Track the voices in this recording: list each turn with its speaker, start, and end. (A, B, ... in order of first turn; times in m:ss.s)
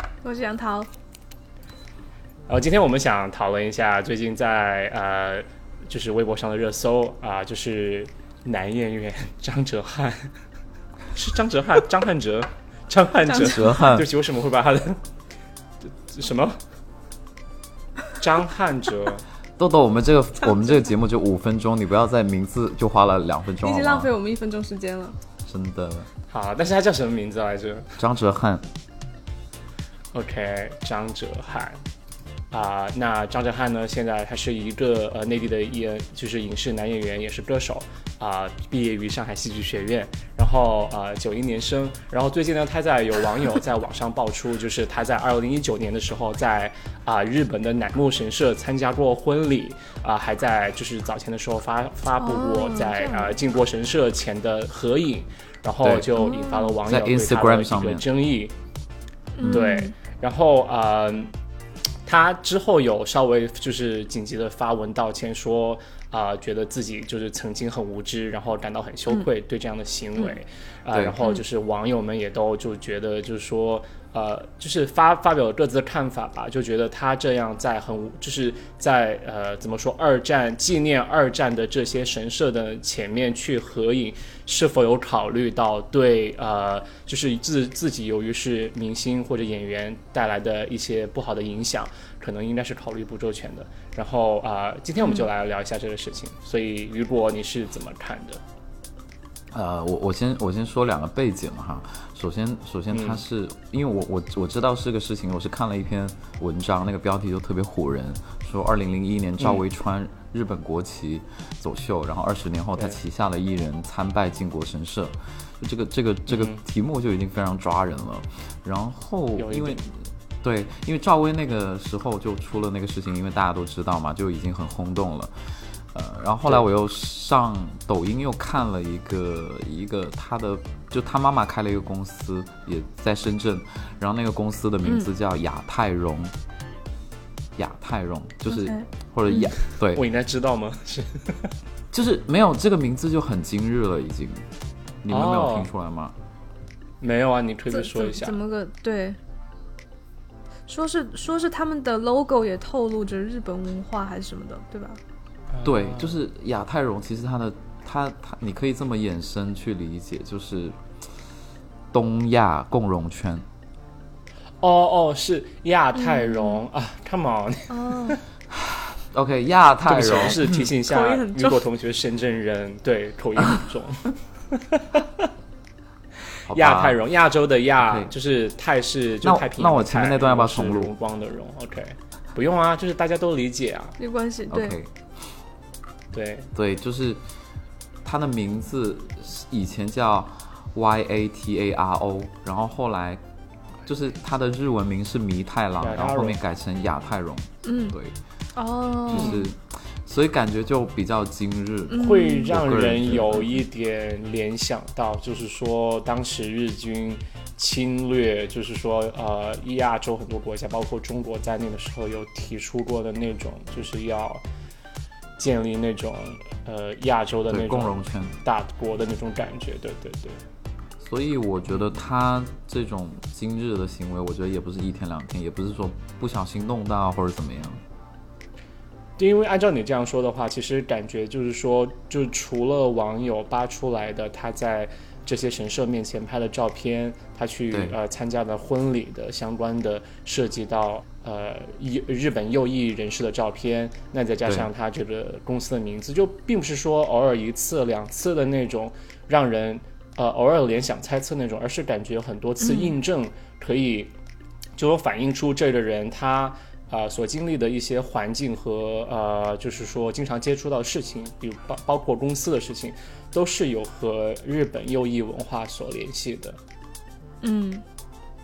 0:00.2-0:00.9 A
0:02.5-0:10.3 B
0:11.1-0:15.0 B
0:13.3-0:14.1 C
0:16.0-0:16.6 B
0:18.2-0:19.2 B
0:19.6-0:24.1 C
0:23.6-0:25.2 A
0:25.4-0:26.1 C
0:26.3-0:28.0 B
0:28.0-0:28.6 C
0:30.1-0:31.8 B
0:32.5-0:58.5 B
0:52.2-0:53.3 A
0:55.8-0:56.1 C
0:56.2-0:56.8 A
0:56.8-0:58.0 C
0:59.4-1:00.0 A
0:59.4-1:01.3 B
1:02.0-1:38.4 B
1:10.9-1:11.2 C
1:39.5-2:16.3 C
1:42.9-1:43.2 B
1:56.3-1:56.6 B
1:59.4-1:59.8 B
2:17.6-2:20.0 C
2:18.5-2:19.5 A
2:19.9-2:21.5 B
2:21.9-2:24.4 C
2:25.0-2:26.1 C
2:25.1-2:25.7 B
2:27.0-2:28.4 B
2:27.7-2:29.2 A
2:30.7-2:35.0 A
2:35.5-2:36.2 B
2:35.6-2:40.8 C
2:41.9-2:43.4 C
2:44.6-2:48.2 B
2:45.9-2:46.6 A
2:47.7-2:48.2 A
2:48.5-2:50.7 C
2:49.8-2:54.1 B
2:50.8-2:51.6 A
2:54.7-2:55.3 B
2:56.5-2:57.0 C
2:56.5-3:04.0 B
2:57.8-2:58.1 C
2:59.2-3:00.9 C
3:04.0-3:04.8 A
3:04.5-3:04.9 C
3:06.1-3:06.5 B
3:06.6-3:07.2 C
3:08.0-3:13.2 C
3:13.9-3:18.2 C
3:15.8-3:16.4 B
3:17.6-3:18.0 A
3:18.6-3:19.5 A
3:19.1-3:23.5 C
3:19.1-3:19.4 B
3:21.9-3:22.6 A
3:21.9-3:34.4 B
3:35.4-3:40.4 B
3:37.5-3:38.4 C
3:41.0-3:47.8 C
3:49.2-4:14.1 B
4:12.6-4:12.9 A
4:14.8-4:26.6 B
4:27.4-4:27.8 A